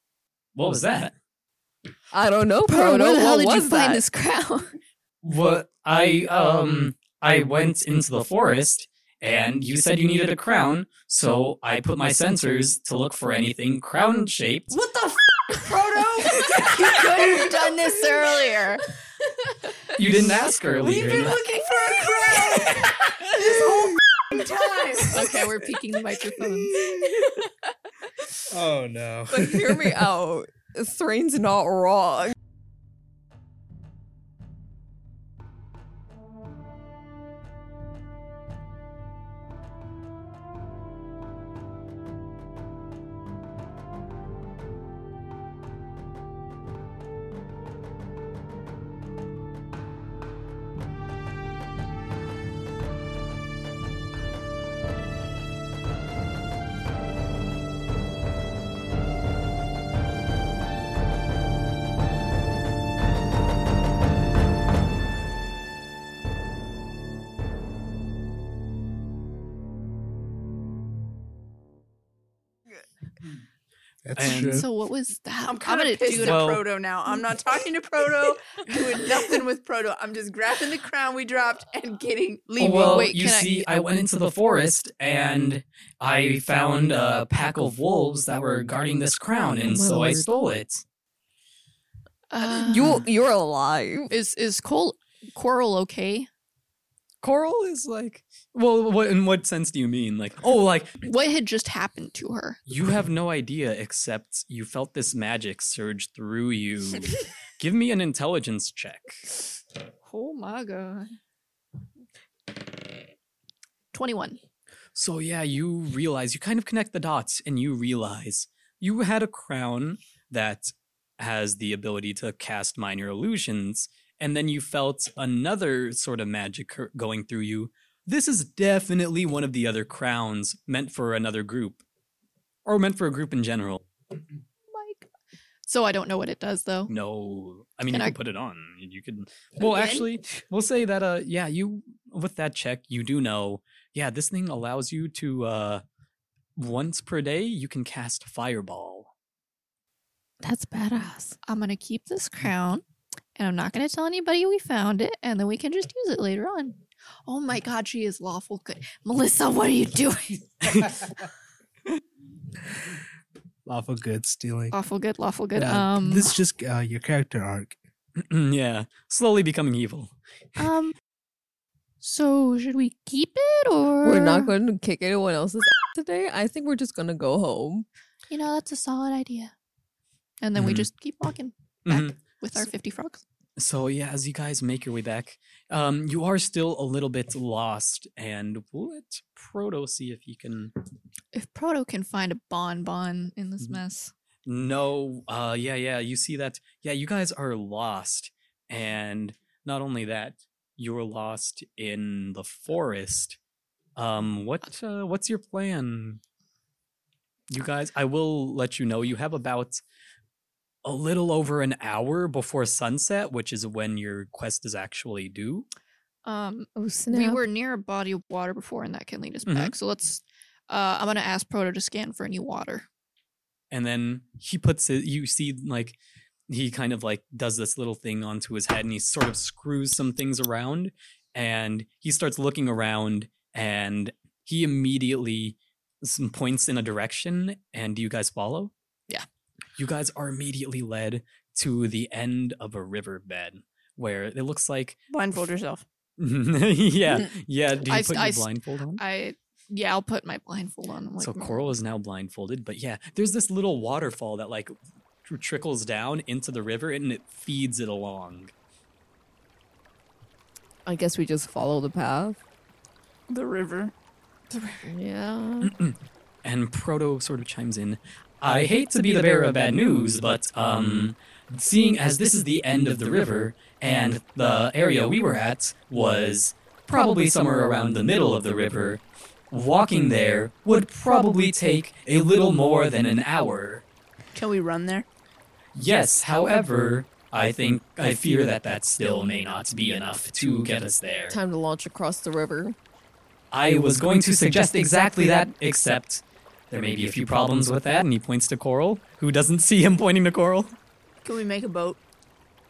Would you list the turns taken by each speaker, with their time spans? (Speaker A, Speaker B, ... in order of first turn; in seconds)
Speaker A: 0.6-1.1, 5.2-14.8, 19.9-21.4, 74.2-74.7, 76.2-76.6, 82.6-90.8, 97.2-101.0, 102.7-109.2, 115.0-131.8, 132.7-133.8, 136.9-145.8, 146.6-149.1, 160.6-161.0, 168.2-170.1, 180.6-180.9, 181.9-182.6, 183.6-190.7, 194.5-203.4, 204.0-206.2, 207.5-209.8, 210.8-215.7, 219.5-219.7, 223.7-226.0, 226.5-238.7, 239.8-245.0, 246.2-249.0, 251.2-258.5, 265.6-283.8, 285.8-291.4, 293.5-300.8
Speaker B: 2.1-4.0, 29.3-32.3, 89.7-90.3, 92.4-94.1, 150.4-151.4, 174.0-177.9, 216.8-217.4, 260.9-262.4, 264.9-265.7, 291.3-292.8
Speaker C: 2.7-4.7, 25.1-26.9, 74.2-76.5, 82.8-83.6, 92.3-93.0, 94.1-96.3, 101.0-102.6, 110.0-111.1, 113.9-114.4, 134.7-135.1, 135.7-136.9, 137.9-138.2, 151.4-152.8, 153.4-160.8, 164.7-166.3, 170.6-170.9, 172.0-174.5, 178.3-179.5, 180.4-183.2, 191.3-194.1, 216.2-222.9, 247.8-251.7
Speaker D: 14.7-18.8, 20.8-25.5, 75.5-83.1, 245.1-245.8, 263.3-263.9, 284.4-285.1, 301.2-302.0
Speaker E: 28.5-30.1, 74.0-74.7, 163.7-164.8, 165.6-167.8